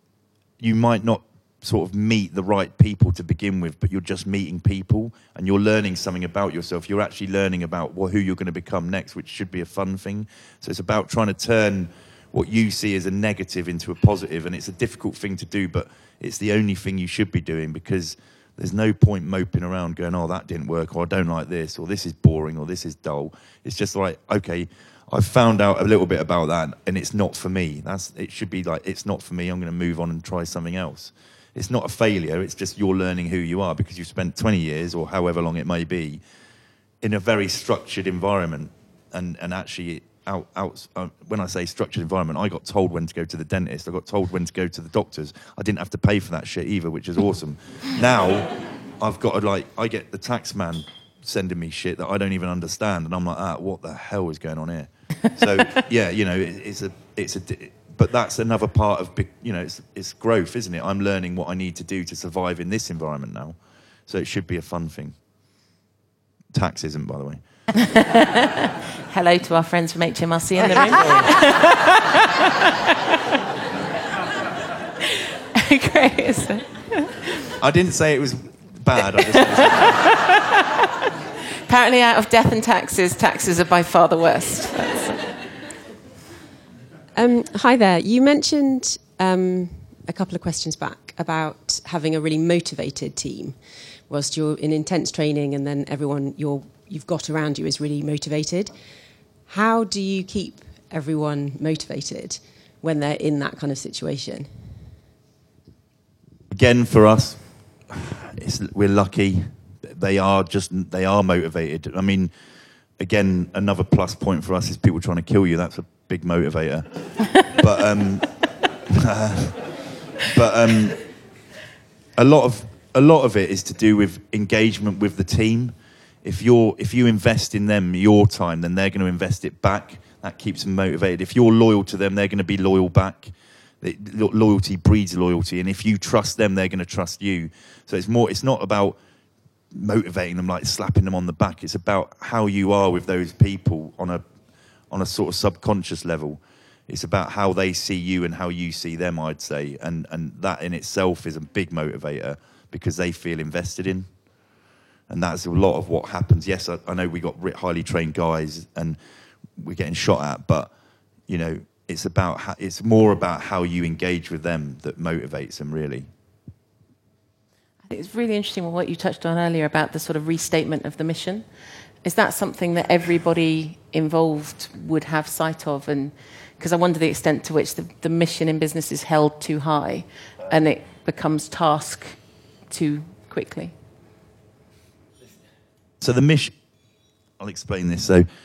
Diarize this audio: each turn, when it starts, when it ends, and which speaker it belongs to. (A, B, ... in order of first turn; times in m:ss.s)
0:00.6-0:36.2 A
0:37.0-1:05.2 A
1:06.5-1:07.4 A
1:07.8-1:12.6 B
1:10.6-1:11.3 A
1:15.5-1:17.2 B
1:17.6-1:20.0 A
1:21.7-1:25.2 B
1:27.1-1:38.7 C
1:39.5-1:44.8 C
1:46.5-1:52.3 A
1:53.0-1:58.3 A
1:58.9-1:59.7 A
2:00.2-2:01.0 A
2:02.2-2:19.0 A
2:19.7-2:24.2 A
2:24.9-2:34.1 A
2:35.1-2:39.0 A
2:39.6-2:40.7 A
2:41.3-2:46.1 A
2:47.9-2:51.4 B
2:52.0-3:03.7 B
3:06.0-3:06.5 A
3:07.4-3:08.3 A